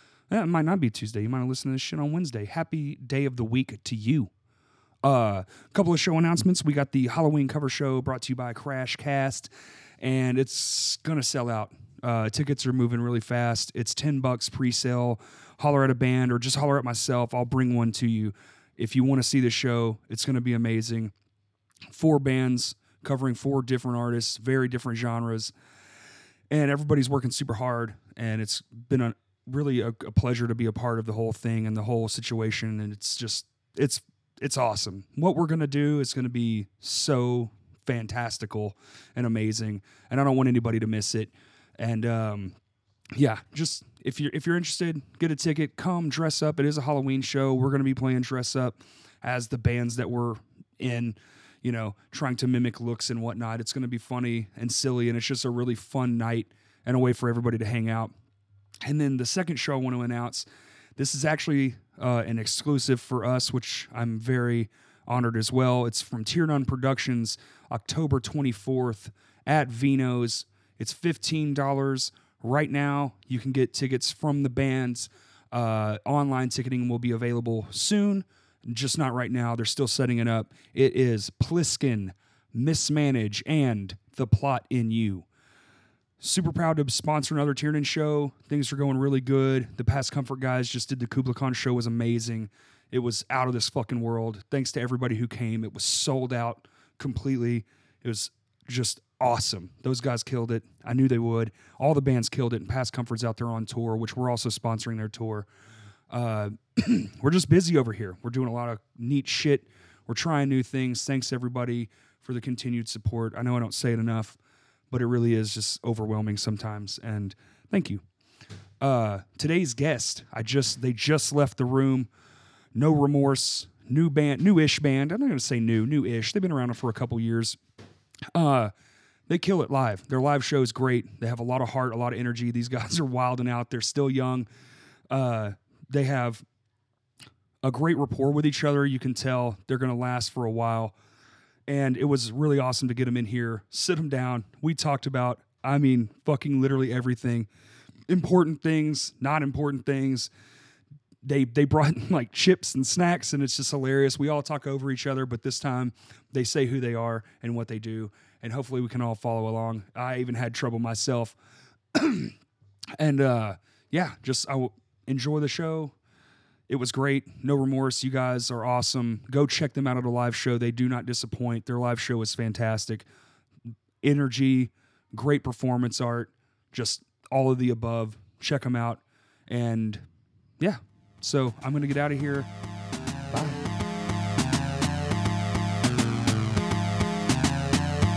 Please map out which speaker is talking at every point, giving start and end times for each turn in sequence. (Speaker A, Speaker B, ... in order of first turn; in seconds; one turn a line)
Speaker A: 0.3-4.3
Speaker A: 5.0-21.1
Speaker A: 21.9-25.5
Speaker A: 26.5-42.5
Speaker A: 43.1-58.1
Speaker A: 58.8-85.2
Speaker A: 86.2-105.5
Speaker A: 106.1-114.4
Speaker A: 114.9-118.0
Speaker A: 118.8-122.1
Speaker A: 122.7-127.6
Speaker A: 128.3-128.7
Speaker A: 129.3-134.5
Speaker A: 135.1-136.4
Speaker A: 137.6-140.9
Speaker A: 141.7-147.5
Speaker A: 148.1-150.3
Speaker A: 151.2-161.3
Speaker A: 161.9-162.3
Speaker A: 163.0-165.9
Speaker A: 166.7-173.1
Speaker A: 174.0-180.0
Speaker A: 180.6-182.5
Speaker A: 183.3-183.6